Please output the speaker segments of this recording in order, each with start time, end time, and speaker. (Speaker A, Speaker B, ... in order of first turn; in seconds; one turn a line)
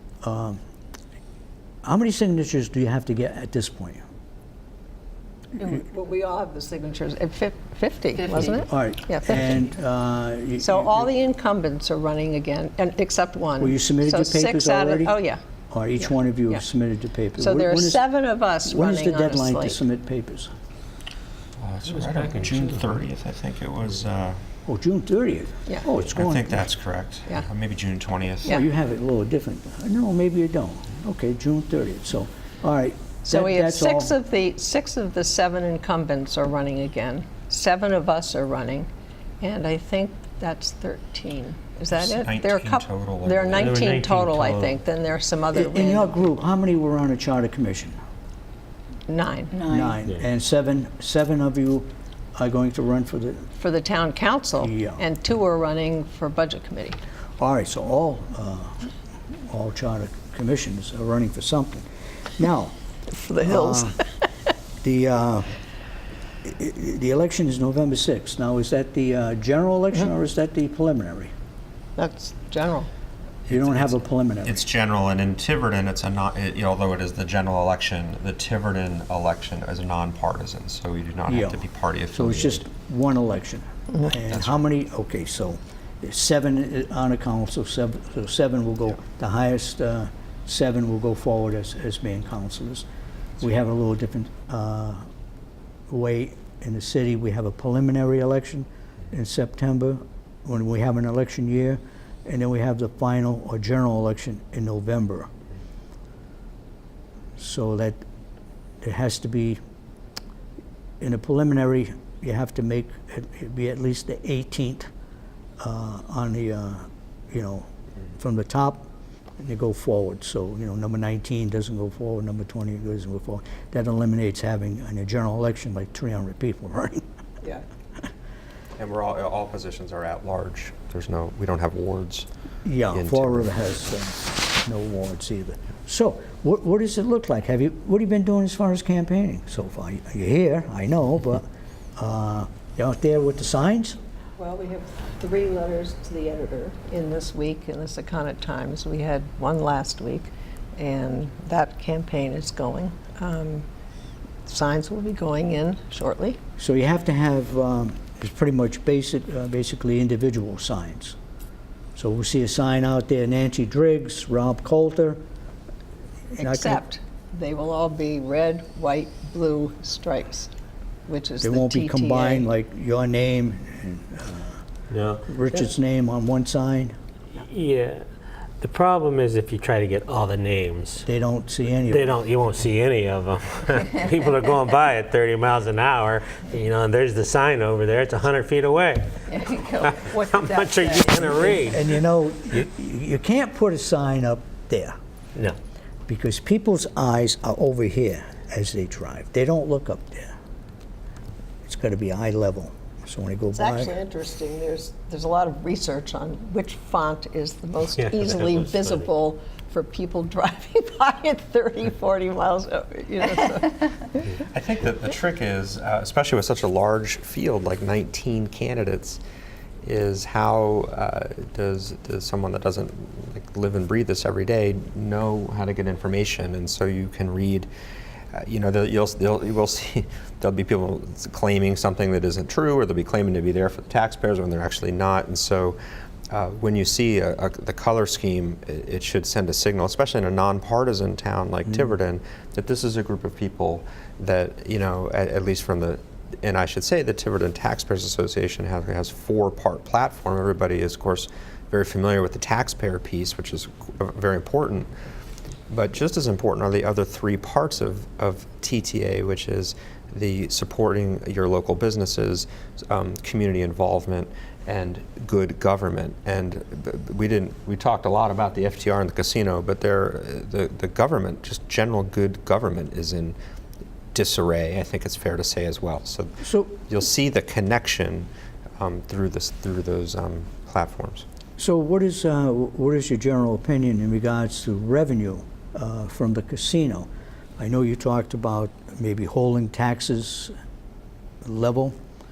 Speaker A: 0.2-0.6
Speaker A: 1.8-4.0
Speaker B: 5.6-9.5
Speaker A: 8.6-11.1
Speaker B: 10.6-15.4
Speaker A: 13.6-15.1
Speaker A: 15.7-18.0
Speaker B: 17.4-19.9
Speaker A: 18.6-20.5
Speaker C: 21.6-24.4
Speaker D: 22.1-22.7
Speaker A: 24.7-26.7
Speaker C: 26.1-28.6
Speaker A: 28.5-34.1
Speaker B: 33.2-38.9
Speaker B: 39.4-46.2
Speaker C: 41.9-43.8
Speaker D: 43.5-44.8
Speaker A: 45.5-48.0
Speaker B: 49.1-49.6
Speaker A: 49.7-53.5
Speaker B: 53.6-57.0
Speaker A: 54.6-55.0
Speaker A: 57.4-58.9
Speaker A: 59.5-62.8
Speaker B: 63.1-64.0
Speaker A: 63.3-64.0
Speaker A: 64.8-65.5
Speaker A: 66.4-71.3
Speaker B: 72.0-72.9
Speaker C: 73.5-82.7
Speaker A: 73.5-74.6
Speaker A: 81.3-81.6
Speaker A: 82.1-92.9
Speaker C: 84.3-84.6
Speaker A: 93.4-95.1
Speaker A: 95.9-105.3
Speaker A: 107.4-108.0
Speaker A: 108.8-109.6
Speaker A: 111.0-114.9
Speaker A: 115.6-118.9
Speaker A: 119.4-127.0
Speaker C: 128.8-132.3
Speaker A: 132.7-144.0
Speaker C: 132.9-133.5
Speaker B: 144.4-153.7
Speaker B: 154.5-156.4
Speaker A: 156.6-161.2
Speaker A: 161.9-165.2
Speaker A: 166.3-166.8
Speaker B: 166.4-170.5
Speaker B: 171.1-172.5
Speaker A: 171.4-174.6
Speaker D: 174.9-175.3
Speaker A: 175.2-176.9
Speaker D: 177.4-178.1
Speaker D: 178.6-181.1
Speaker A: 181.1-182.2
Speaker D: 181.9-191.9
Speaker B: 189.3-191.8
Speaker A: 191.7-195.0
Speaker A: 196.1-200.3
Speaker A: 201.7-203.9
Speaker B: 203.5-214.2
Speaker D: 208.0-209.1
Speaker C: 214.5-219.2
Speaker C: 219.8-227.7
Speaker C: 228.3-235.8
Speaker C: 236.3-254.9
Speaker C: 255.7-273.4
Speaker C: 274.1-281.2
Speaker A: 276.4-276.7
Speaker A: 281.6-290.5
Speaker A: 291.4-291.9